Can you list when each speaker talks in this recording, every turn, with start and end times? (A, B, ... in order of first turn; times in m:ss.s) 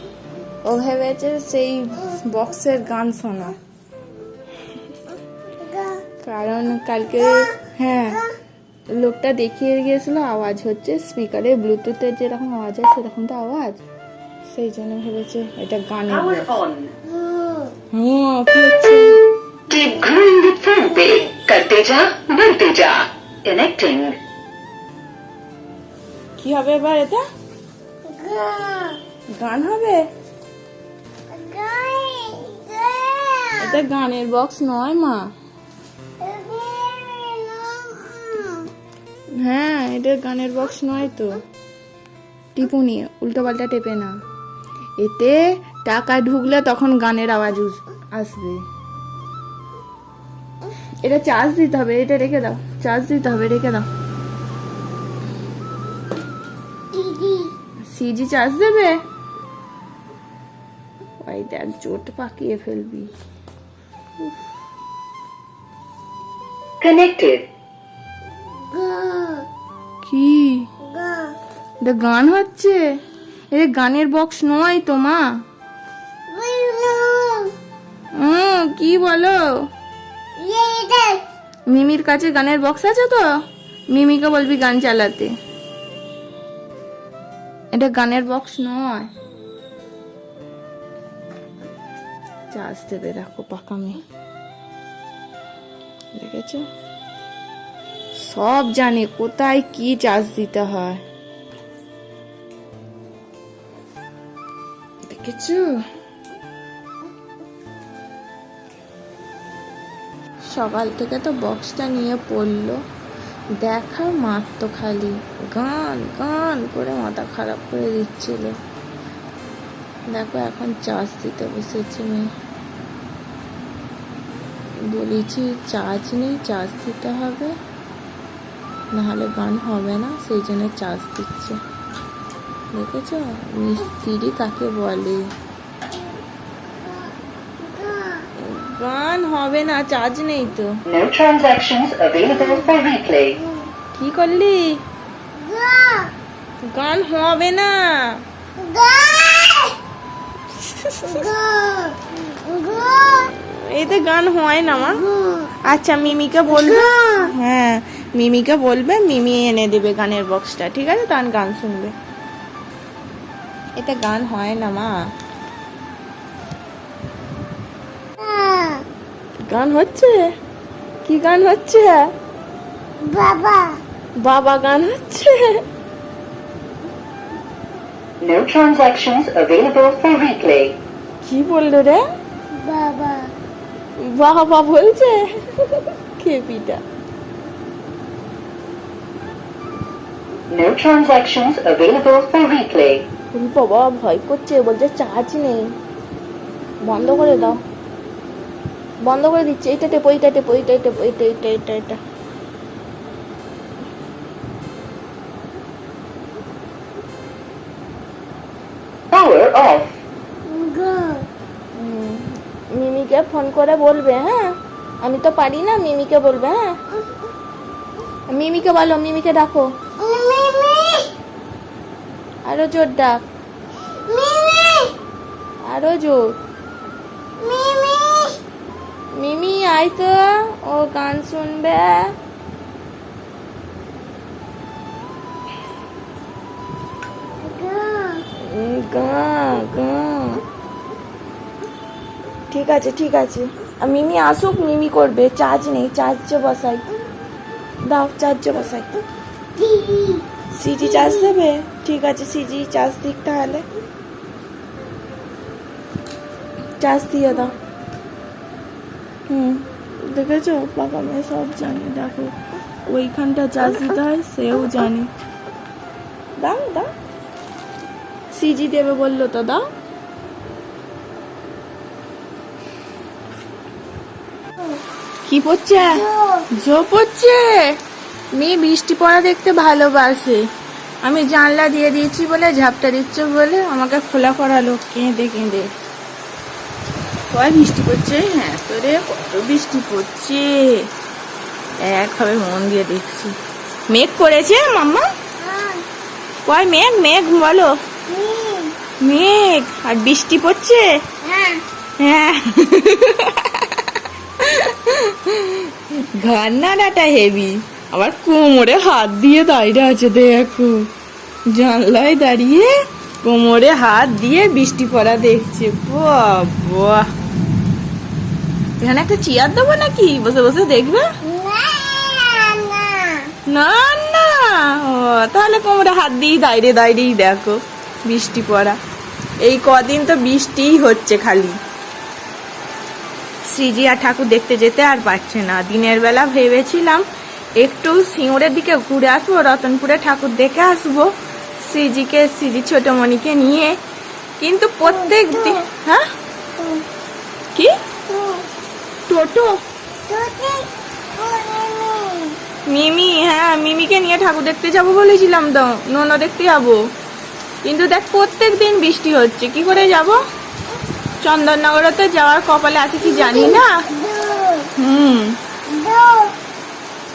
0:00.6-0:03.6 A
0:05.5-0:06.0 B
0:06.2-0:08.2 A
0:09.0-0:13.8 A
0:14.5-0:16.6 A
0:16.1-0:17.0 C
0:17.1-0:17.7 B
0:17.9-0:19.2 A
0:19.7-0:24.2 C
0:26.4-0:27.2 A
0:28.0-0:29.0 B
0:29.4-0:30.0 A
0:31.3-0:33.8 B
0:33.6-0:35.3 A
0:36.2-0:38.7 B
0:39.3-0:41.4 A
0:42.6-0:44.2 A
0:45.0-0:48.6 A
0:51.0-0:53.9 A
0:57.0-0:57.5 B
0:57.8-0:59.0 A
1:01.2-1:03.1 A
1:06.8-1:07.5 C
1:08.7-1:09.5 B
1:10.0-1:10.7 A
1:10.9-1:11.4 B
1:11.8-1:12.8 A
1:13.5-1:15.2 A
1:16.3-1:17.5 B
1:18.2-1:19.4 A
1:20.4-1:21.2 B
1:21.7-1:23.3 A
1:23.9-1:25.3 A
1:27.7-1:29.1 A
1:32.5-1:34.0 A
1:36.2-1:36.7 A
1:38.2-1:41.0 A
1:45.1-1:45.8 A
1:50.5-1:52.8 A
1:53.6-1:58.6 A
2:00.1-2:02.3 A
2:04.8-2:07.6 A
2:08.9-2:11.6 A
2:12.7-2:15.3 A
2:17.6-2:18.3 B
2:18.4-2:20.8 A
2:20.9-2:23.4 C
2:23.9-2:24.8 A
2:25.4-2:26.1 B
2:26.7-2:28.2 A
2:28.6-2:29.8 B
2:30.6-2:31.3 A
2:31.1-2:33.3 B
2:33.0-2:35.0 A
2:35.6-2:41.9 A
2:36.6-2:37.3 B
2:43.8-2:44.9 A
2:48.2-2:48.9 B
2:49.5-2:50.3 A
2:51.0-2:52.1 A
2:53.0-2:53.8 B
2:54.2-2:55.6 A
2:58.2-3:00.8 C
3:01.2-3:02.0 A
3:02.5-3:03.3 B
3:04.0-3:06.8 A
3:10.5-3:13.1 C
3:13.3-3:15.7 A
3:16.8-3:17.6 A
3:19.0-3:22.0 A
3:29.1-3:29.9 C
3:30.5-3:31.3 B
3:31.8-3:36.7 A
3:38.3-3:39.7 A
3:40.0-3:41.1 B
3:42.4-3:43.2 A
3:43.9-3:45.0 B
3:45.6-3:46.2 A
3:47.4-3:48.4 B
3:49.1-3:52.1 A
3:57.4-3:58.2 B
3:58.4-4:00.4 A
4:02.5-4:06.9 A
4:07.8-4:08.9 A
4:09.6-4:10.2 B
4:10.5-4:13.6 A
4:16.8-4:17.5 A
4:19.3-4:22.3 A
4:22.8-4:25.1 A
4:26.4-4:26.9 A
4:28.3-4:29.6 A
4:35.2-4:37.6 A
4:35.9-4:36.5 B
4:38.3-4:40.4 A
4:41.0-4:45.7 A
4:47.3-4:50.9 A
4:51.8-4:53.4 A
4:53.9-4:55.1 A
4:55.4-4:55.8 B
4:56.4-4:57.8 A
4:58.1-4:58.8 B
4:59.0-5:01.0 A
5:01.2-5:01.6 B
5:02.0-5:03.8 A
5:04.4-5:10.9 A
5:11.5-5:12.7 A
5:13.2-5:17.1 A
5:18.8-5:21.1 A
5:21.2-5:23.3 B
5:23.5-5:28.8 A
5:29.4-5:31.6 A
5:33.5-5:37.0 A
5:37.6-5:41.1 A
5:41.6-5:43.8 A
5:44.4-5:46.0 A
5:44.9-5:45.6 B
5:48.1-5:48.4 B
5:49.1-5:49.6 A
5:50.1-5:52.4 B
5:52.7-5:56.8 A
5:57.6-6:00.2 A
6:01.2-6:03.9 A
6:03.2-6:04.7 B
6:04.8-6:05.4 A
6:05.7-6:06.4 B